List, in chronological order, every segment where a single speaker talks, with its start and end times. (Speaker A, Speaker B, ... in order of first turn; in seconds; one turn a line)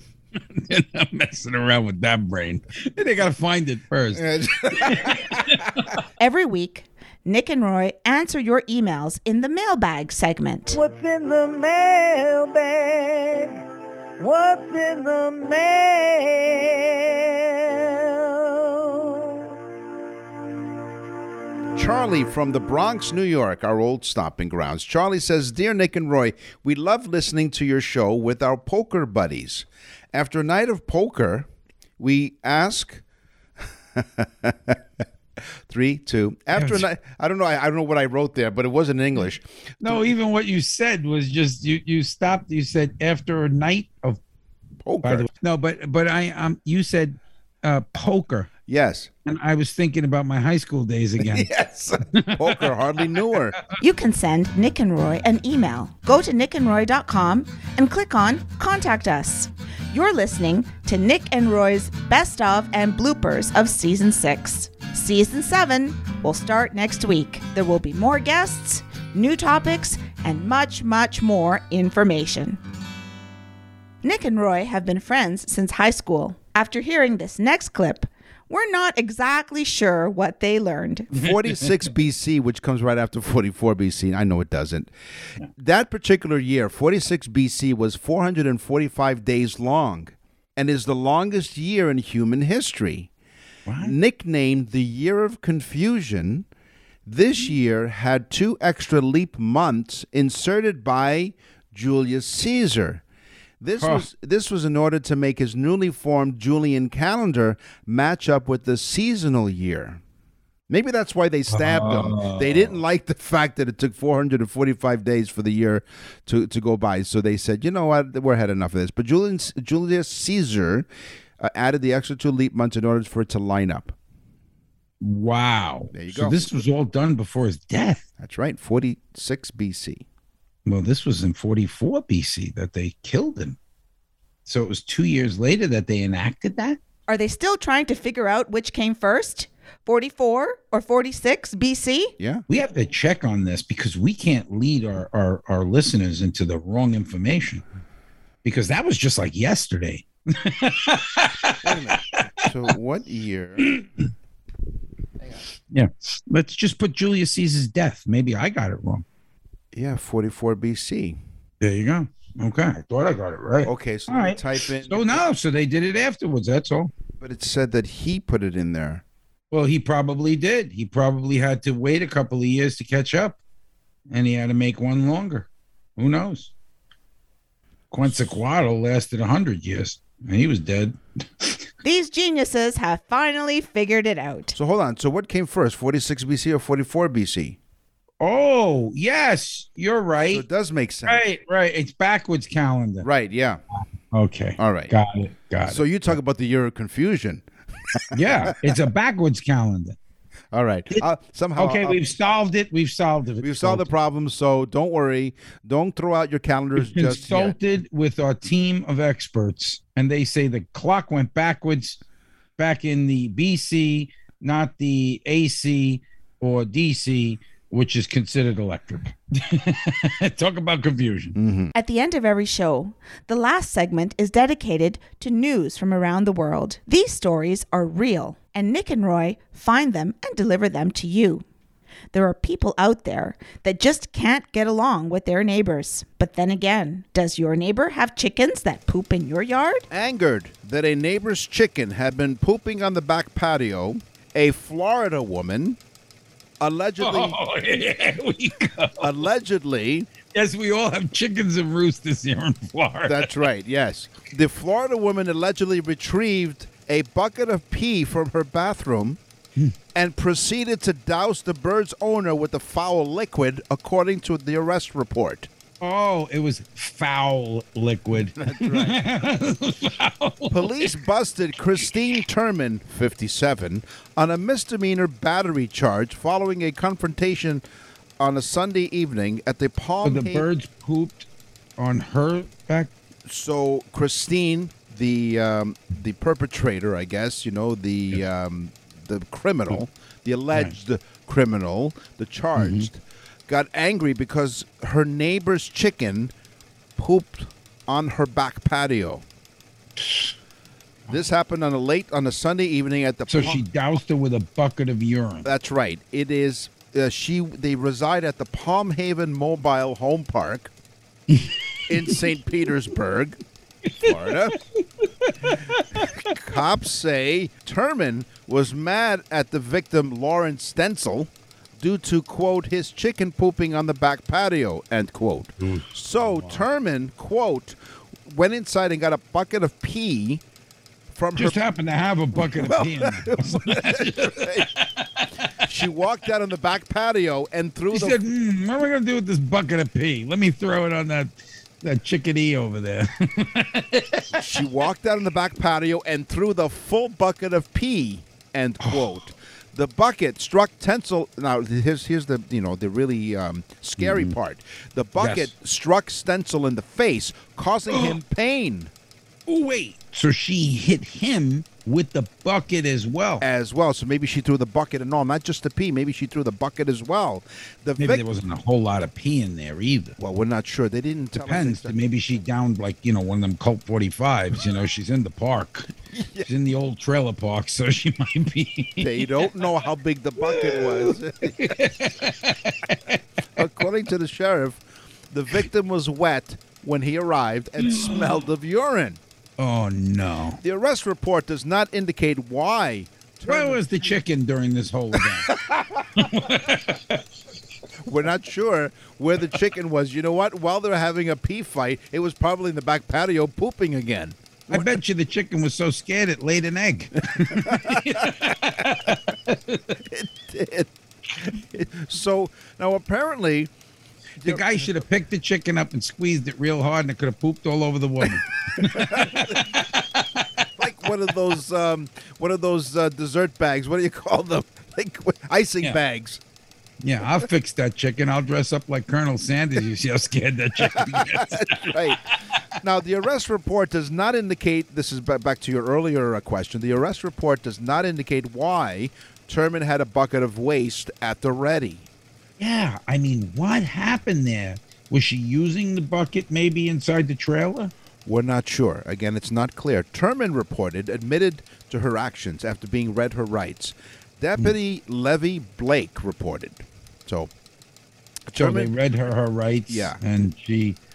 Speaker A: 0.4-6.0
Speaker B: 4.1-5.4
Speaker C: 6.2-10.8
Speaker D: 10.7-13.6
Speaker D: 14.2-19.1
Speaker B: 21.8-31.5
Speaker B: 32.0-33.0
Speaker B: 33.9-34.8
Speaker B: 35.7-40.1
Speaker A: 36.5-36.9
Speaker A: 39.8-44.2
Speaker B: 44.9-45.3
Speaker A: 45.0-48.5
Speaker B: 48.7-49.1
Speaker A: 49.3-51.5
Speaker B: 51.2-53.6
Speaker A: 52.1-52.6
Speaker C: 53.8-72.6
Speaker C: 74.0-81.1
Speaker B: 81.1-84.9
Speaker B: 85.6-93.1
Speaker A: 93.7-94.0
Speaker B: 93.8-96.5
Speaker B: 97.1-103.0
Speaker B: 103.6-110.0
Speaker A: 103.8-104.0
Speaker B: 110.7-120.9
Speaker A: 111.5-112.8
Speaker B: 121.4-124.0
Speaker A: 125.0-128.1
Speaker B: 125.9-126.5
Speaker B: 128.2-130.0
Speaker A: 130.7-133.6
Speaker A: 134.5-136.8
Speaker C: 137.1-142.1
Speaker B: 142.2-142.4
Speaker A: 142.5-147.6
Speaker A: 148.4-151.9
Speaker B: 151.6-153.7
Speaker A: 153.6-153.9
Speaker A: 155.7-159.1
Speaker B: 159.7-161.2
Speaker A: 161.6-166.9
Speaker B: 163.7-165.3
Speaker B: 167.2-169.0
Speaker A: 169.5-173.4
Speaker A: 174.1-176.5
Speaker A: 177.9-181.6
Speaker C: 181.8-184.6
Speaker B: 184.6-187.6
Speaker A: 188.2-190.4
Speaker B: 190.3-191.2
Speaker A: 191.1-193.1
Speaker B: 193.0-193.6
Speaker A: 194.1-195.9
Speaker B: 194.6-194.9
Speaker B: 195.7-198.8
Speaker A: 198.1-200.0
Speaker B: 200.5-202.0
Speaker A: 200.9-203.9
Speaker B: 203.4-207.6
Speaker A: 206.8-212.0
Speaker A: 212.6-221.4
Speaker B: 221.3-221.7
Speaker C: 221.8-231.4
Speaker C: 232.1-239.9
Speaker B: 239.9-245.8
Speaker B: 246.6-247.4
Speaker A: 247.0-249.1
Speaker B: 249.0-250.1
Speaker A: 250.3-253.3
Speaker B: 253.1-259.2
Speaker B: 259.9-265.5
Speaker A: 265.8-271.0
Speaker B: 268.4-269.1
Speaker B: 270.5-277.6
Speaker B: 278.2-280.5
Speaker A: 280.0-281.3
Speaker A: 281.8-282.9
Speaker B: 283.3-296.3
Speaker A: 292.6-292.9
Speaker B: 297.0-299.2
Speaker A: 300.0-300.3
Speaker B: 301.1-303.6
Speaker A: 303.3-305.5
Speaker B: 305.4-310.7
Speaker A: 311.3-311.6
Speaker B: 311.9-313.4
Speaker B: 314.0-314.6
Speaker A: 315.0-316.1
Speaker B: 316.0-330.4
Speaker A: 325.6-326.6
Speaker B: 331.1-331.6
Speaker A: 331.4-335.3
Speaker B: 332.4-334.7
Speaker B: 335.6-338.2
Speaker A: 337.9-344.5
Speaker B: 344.3-358.9
Speaker A: 348.8-349.1
Speaker A: 354.0-354.3
Speaker A: 355.2-355.5
Speaker A: 357.9-358.2
Speaker A: 359.5-363.4
Speaker B: 363.4-368.2
Speaker A: 368.0-370.2
Speaker B: 370.2-372.0
Speaker A: 371.4-375.9
Speaker B: 376.1-376.5
Speaker A: 376.5-379.3
Speaker B: 379.0-381.7
Speaker A: 380.4-383.2
Speaker B: 383.6-389.2
Speaker A: 387.8-388.2
Speaker A: 389.6-390.6
Speaker B: 390.6-394.1
Speaker A: 393.5-395.5
Speaker B: 395.2-396.2
Speaker A: 396.1-397.2
Speaker B: 398.1-405.0
Speaker A: 404.7-410.0
Speaker B: 407.4-408.6
Speaker B: 410.0-413.7
Speaker B: 414.4-415.0
Speaker A: 414.4-420.5
Speaker B: 418.8-419.8
Speaker B: 420.8-426.4
Speaker A: 427.0-432.1
Speaker B: 430.9-432.2
Speaker B: 432.8-442.1
Speaker A: 442.6-447.9
Speaker B: 448.2-457.5
Speaker B: 458.5-458.9
Speaker A: 458.6-461.0
Speaker B: 459.9-460.2